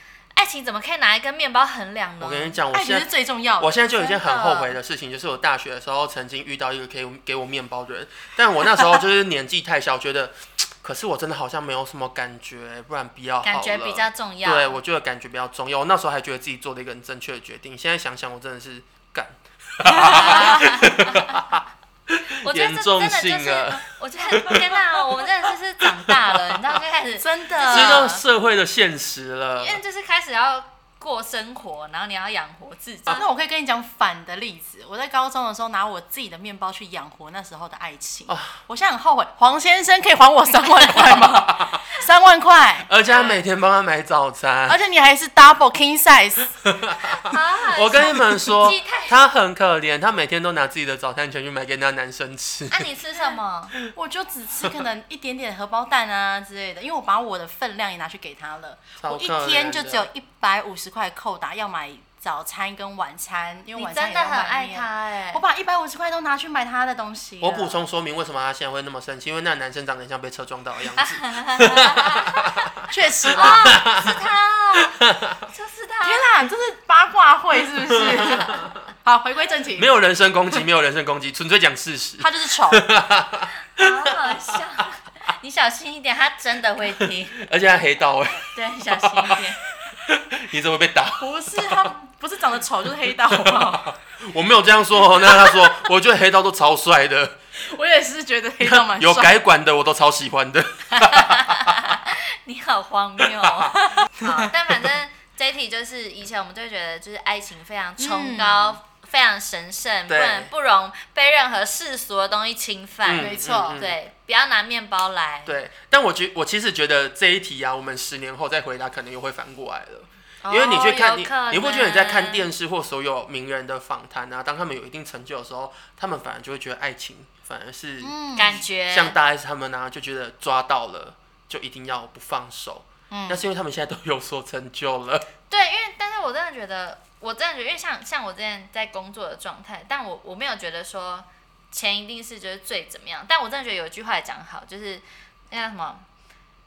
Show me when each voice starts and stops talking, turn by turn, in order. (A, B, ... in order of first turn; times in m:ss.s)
0:00.3-0:02.6 A
0:02.2-0:25.0 B
0:02.7-0:03.8 C
0:03.9-0:04.8 A
0:13.4-0:14.8 A
0:20.0-0:21.5 A
0:22.4-0:28.1 A
0:27.2-0:28.2 C
0:27.7-0:29.8 B
0:29.6-0:33.2 A
0:33.1-0:42.9 C
0:38.3-0:38.6 B
0:41.2-0:41.7 B
0:42.9-0:44.8 B
0:43.1-0:43.4 A
0:44.7-0:46.6 C
0:46.8-0:52.9 B
0:47.1-0:49.2 A
0:52.7-0:53.7 A
0:53.9-1:07.8 C
0:59.0-1:00.1 B
1:03.7-1:05.4 A
1:07.4-1:12.1 B
1:11.0-1:16.3 A
1:12.9-1:13.8 C
1:13.3-1:14.1 B
1:15.0-1:15.4 B
1:16.0-1:20.0 C
1:18.1-1:18.7 B
1:19.7-1:24.6 B
1:22.2-1:22.9 C
1:23.8-1:27.4 A
1:27.0-1:31.9 B
1:28.5-1:29.6 A
1:31.2-1:33.9 C
1:33.3-1:37.4 B
1:35.2-1:35.9 C
1:37.6-1:39.4 C
1:38.6-1:41.7 B
1:41.0-1:55.6 A
1:48.0-1:48.8 C
1:50.1-1:50.5 B
1:53.0-1:54.0 B
1:53.2-1:53.8 C
1:55.4-2:08.1 B
2:00.4-2:02.5 A
2:08.0-2:08.6 C
2:08.3-2:09.2 A
2:08.9-2:15.3 B
2:13.1-2:13.5 C
2:15.5-2:26.0 A